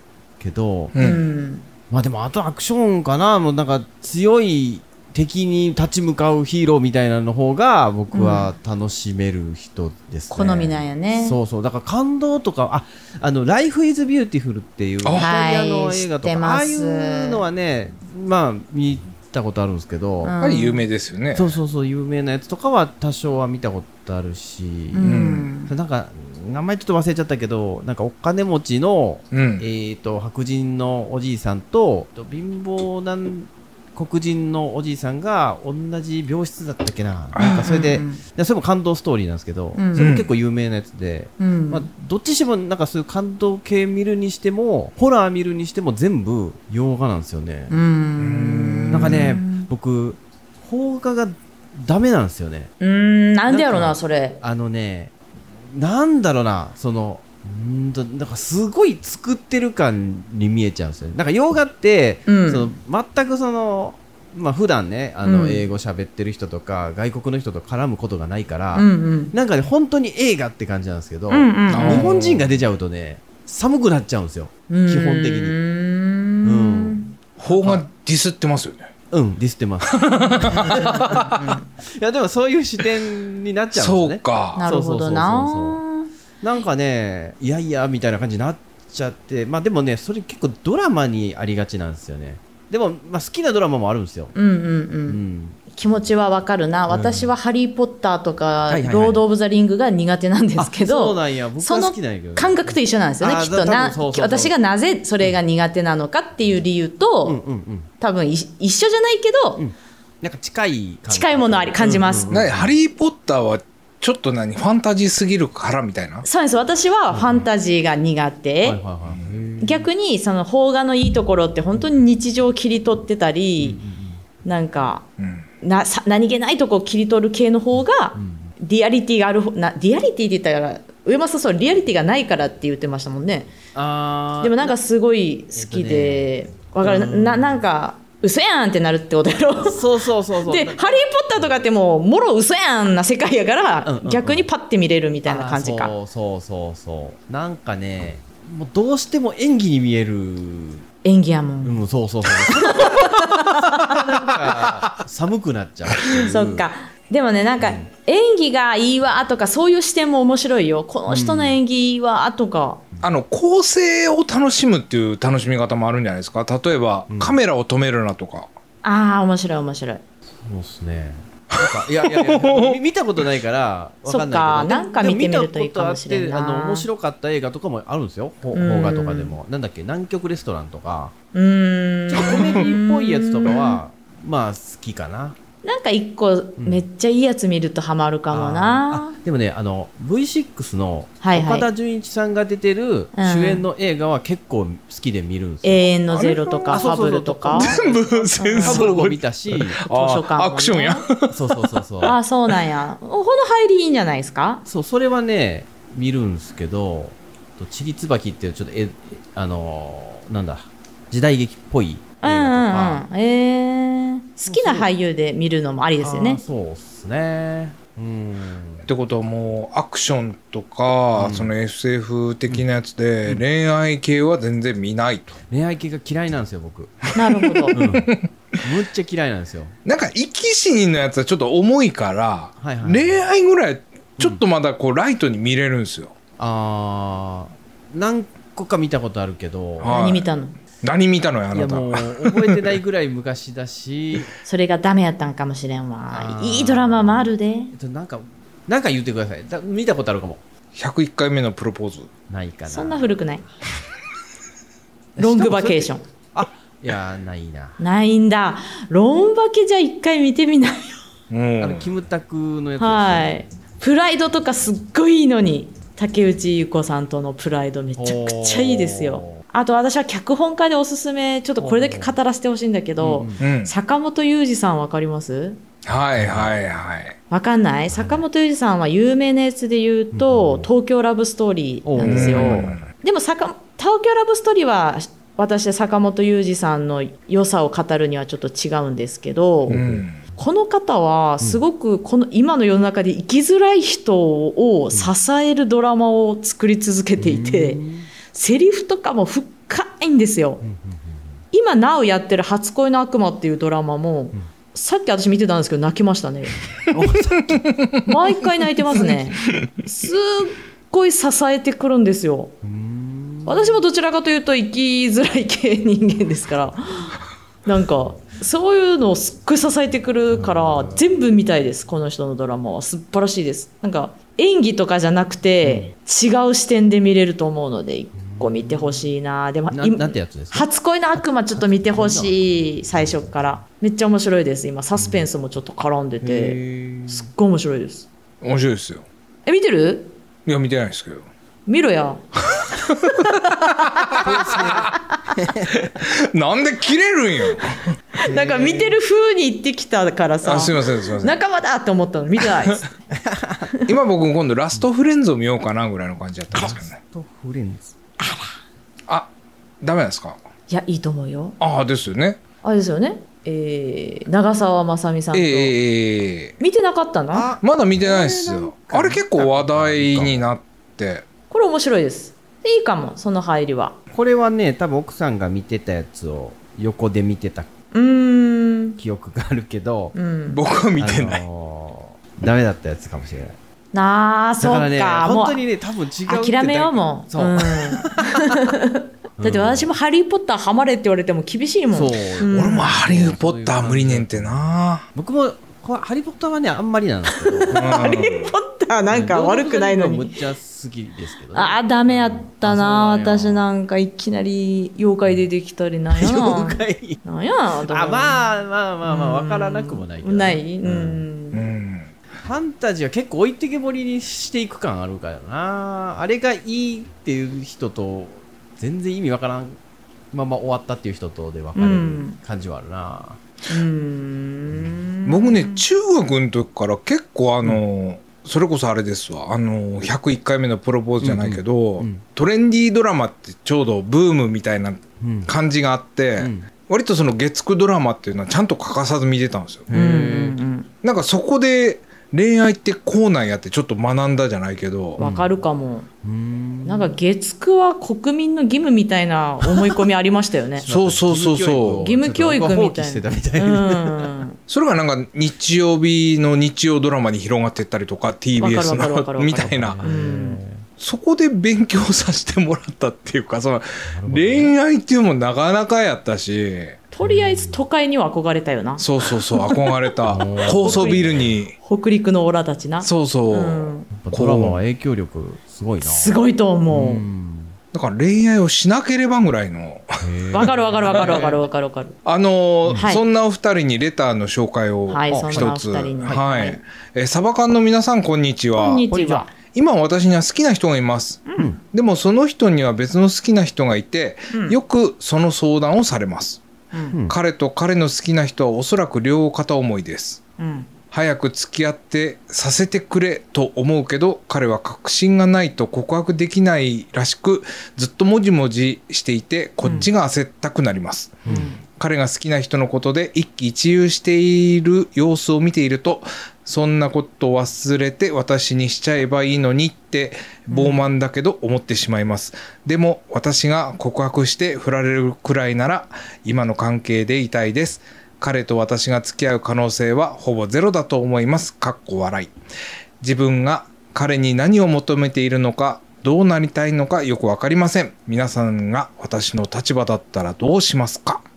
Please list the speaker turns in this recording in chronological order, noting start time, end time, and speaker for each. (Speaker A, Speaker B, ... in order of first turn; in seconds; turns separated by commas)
Speaker A: 0.4-0.9, Speaker B: 0.9-1.2, Speaker C: 1.0-1.6, Speaker A: 1.9-20.4, Speaker C: 8.1-8.5, Speaker C: 10.3-11.4, Speaker B: 15.0-15.3, Speaker C: 15.2-17.4, Speaker C: 20.2-20.8, Speaker B: 20.4-21.6, Speaker A: 21.3-47.7, Speaker C: 24.9-25.7, Speaker B: 25.0-25.5, Speaker B: 29.3-29.6, Speaker B: 37.3-37.7, Speaker C: 37.4-38.2, Speaker C: 39.8-40.1, Speaker B: 40.0-40.3, Speaker C: 41.4-41.9, Speaker C: 47.7-49.7, Speaker B: 48.2-49.4, Speaker A: 48.9-52.7, Speaker C: 52.8-54.4, Speaker A: 53.5-55.1, Speaker A: 55.6-75.5, Speaker C: 62.3-62.7, Speaker C: 65.2-65.6, Speaker C: 68.7-69.3, Speaker C: 71.3-72.1, Speaker B: 71.7-72.5, Speaker C: 74.7-77.2, Speaker A: 76.4-77.0, Speaker B: 77.4-78.9, Speaker A: 77.6-77.8, Speaker A: 79.1-85.8, Speaker B: 79.9-81.5, Speaker C: 80.2-81.7, Speaker B: 83.7-84.6, Speaker C: 84.5-86.1, Speaker A: 86.4-94.3, Speaker C: 94.3-107.4, Speaker A: 95.1-95.6, Speaker A: 96.9-97.3, Speaker A: 98.7-99.2, Speaker A: 100.6-104.5, Speaker A: 107.2-107.9, Speaker C: 108.0-109.6, Speaker A: 109.6-112.7, Speaker C: 111.1-112.4, Speaker B: 112.3-116.2, Speaker C: 116.2-118.8, Speaker A: 117.1-117.5, Speaker A: 118.6-119.9, Speaker C: 119.6-123.8, Speaker A: 123.6-124.2, Speaker C: 124.4-125.0, Speaker B: 125.2-125.5, Speaker C: 125.6-133.5, Speaker A: 128.1-128.5, Speaker A: 133.7-134.8, Speaker C: 134.4-139.8, Speaker A: 135.5-137.6, Speaker A: 139.7-141.6, Speaker C: 140.4-145.9, Speaker A: 143.8-144.4, Speaker A: 145.2-150.8, Speaker C: 151.0-151.8, Speaker A: 151.6-156.7, Speaker C: 152.4-154.3, Speaker C: 156.0-162.8, Speaker A: 157.6-157.9, Speaker A: 161.1-161.6, Speaker B: 163.0-168.5, Speaker A: 167.1-167.4, Speaker C: 168.8-170.0, Speaker A: 170.4-181.1, Speaker B: 171.5-172.8, Speaker C: 174.1-176.9, Speaker C: 178.5-179.3, Speaker C: 181.3-183.8, Speaker A: 182.1-185.4, Speaker C: 185.6-189.2, Speaker A: 186.6-186.8, Speaker A: 188.3-199.8, Speaker C: 191.2-191.7, Speaker C: 193.2-193.7, Speaker C: 195.6-197.8, Speaker B: 196.3-196.8, Speaker B: 197.5-201.7, Speaker C: 198.4-198.9, Speaker C: 199.9-201.0, Speaker A: 201.3-202.2, Speaker C: 202.0-204.6, Speaker A: 204.7-213.1, Speaker C: 212.2-216.4, Speaker A: 214.5-214.9, Speaker A: 216.0-218.9, Speaker B: 218.8-225.4, Speaker A: 221.1-221.5, Speaker A: 225.5-227.2, Speaker C: 227.1-227.8, Speaker B: 227.4-228.3, Speaker A: 227.7-229.7, Speaker B: 229.8-236.1, Speaker A: 232.6-233.2, Speaker A: 236.4-239.9, Speaker B: 239.8-240.3, Speaker C: 239.9-240.6, Speaker B: 240.8-242.6, Speaker A: 241.5-244.3, Speaker C: 244.4-247.7, Speaker A: 246.1-250.4, Speaker B: 250.7-252.1, Speaker A: 252.3-253.2, Speaker C: 252.7-253.4, Speaker A: 255.2-257.8, Speaker C: 255.2-256.0, Speaker C: 257.8-261.0, Speaker B: 261.3-261.9, Speaker A: 261.6-263.3, Speaker C: 262.8-275.6, Speaker A: 267.9-269.4, Speaker A: 271.6-272.1, Speaker A: 273.0-273.4, Speaker B: 273.4-273.7, Speaker B: 275.8-277.1, Speaker A: 276.1-276.5, Speaker C: 277.3-289.8, Speaker A: 277.9-278.2, Speaker A: 280.1-280.7, Speaker A: 281.8-282.9, Speaker B: 282.0-282.8, Speaker A: 289.7-290.0, Speaker B: 289.7-290.2, Speaker C: 290.4-300.6, Speaker A: 297.2-298.1, Speaker A: 300.6-301.4, Speaker C: 301.5-306.6, Speaker A: 306.9-307.7, Speaker B: 307.5-308.0, Speaker C: 308.0-312.5, Speaker A: 308.9-309.2, Speaker A: 312.6-313.8, Speaker C: 313.4-338.1, Speaker A: 320.3-321.0, Speaker A: 325.6-325.9, Speaker A: 328.2-329.1, Speaker A: 329.7-330.7, Speaker A: 331.5-333.5, Speaker A: 335.0-335.2, Speaker A: 336.2-337.3, Speaker B: 338.4-339.0, Speaker C: 339.4-340.1, Speaker B: 340.4-341.2, Speaker C: 341.7-342.2, Speaker B: 342.5-343.4, Speaker C: 342.9-345.0, Speaker B: 344.0-344.9, Speaker A: 344.2-345.9, Speaker B: 345.7-347.8, Speaker C: 348.2-352.9, Speaker A: 348.2-349.0, Speaker B: 350.4-351.4, Speaker A: 353.1-353.7, Speaker B: 353.9-356.9, Speaker A: 356.5-357.9, Speaker C: 358.2-358.4, Speaker B: 359.8-360.4, Speaker C: 360.7-361.6, Speaker B: 361.6-362.4, Speaker C: 362.6-365.7, Speaker B: 365.3-366.5, Speaker C: 366.6-367.5, Speaker A: 367.3-370.5, Speaker B: 367.6-371.2, Speaker C: 371.5-374.0, Speaker A: 374.1-377.7, Speaker C: 377.9-379.0, Speaker A: 379.0-380.1, Speaker C: 380.1-380.6, Speaker B: 380.5-381.4, Speaker A: 381.0-383.6, Speaker C: 383.9-385.6, Speaker A: 384.6-388.6, Speaker C: 386.3-392.9, Speaker A: 389.4-389.9, Speaker A: 391.9-398.1, Speaker B: 392.4-395.0, Speaker C: 397.3-400.4, Speaker B: 397.7-398.5, Speaker A: 399.1-403.6, Speaker C: 401.5-408.4, Speaker A: 406.1-407.2, Speaker A: 407.9-411.2, Speaker C: 409.0-411.6, Speaker B: 411.5-412.1, Speaker A: 412.4-419.8, Speaker A: 420.3-423.4, Speaker C: 421.7-422.4, Speaker C: 423.7-425.8, Speaker B: 425.2-439.9, Speaker A: 431.2-432.2, Speaker A: 435.2-435.5, Speaker A: 436.4-436.7, Speaker A: 439.9-440.6, Speaker C: 439.9-440.9, Speaker B: 441.0-445.2, Speaker C: 445.2-446.1, Speaker A: 445.2-445.6, Speaker A: 446.2-447.2, Speaker C: 446.8-450.9, Speaker A: 450.8-454.3, Speaker B: 450.9-452.0, Speaker C: 452.0-454.6, Speaker B: 454.7-460.0, Speaker C: 458.6-460.6, Speaker A: 459.6-460.9, Speaker B: 461.0-467.0, Speaker A: 464.1-464.8, Speaker C: 467.1-474.1, Speaker A: 467.2-467.8, Speaker B: 469.0-471.7, Speaker A: 470.2-471.6, Speaker B: 473.0-474.8, Speaker A: 474.1-477.8, Speaker C: 476.0-477.2, Speaker B: 477.9-481.4, Speaker A: 480.2-481.6, Speaker C: 480.5-482.1, Speaker B: 482.2-489.1, Speaker A: 482.8-483.1, Speaker C: 482.9-483.2, Speaker C: 485.1-486.8, Speaker A: 485.3-486.4, Speaker C: 488.8-489.5, Speaker A: 489.1-489.5, Speaker B: 489.7-496.6, Speaker C: 491.5-491.7, Speaker C: 494.5-494.8, Speaker A: 497.1-497.4, Speaker B: 497.3-500.4, Speaker C: 500.6-500.9, Speaker B: 501.1-532.5, Speaker C: 509.8-510.1, Speaker A: 511.4-511.7, Speaker C: 511.5-511.8, Speaker C: 520.7-521.0, Speaker B: 533.2-541.4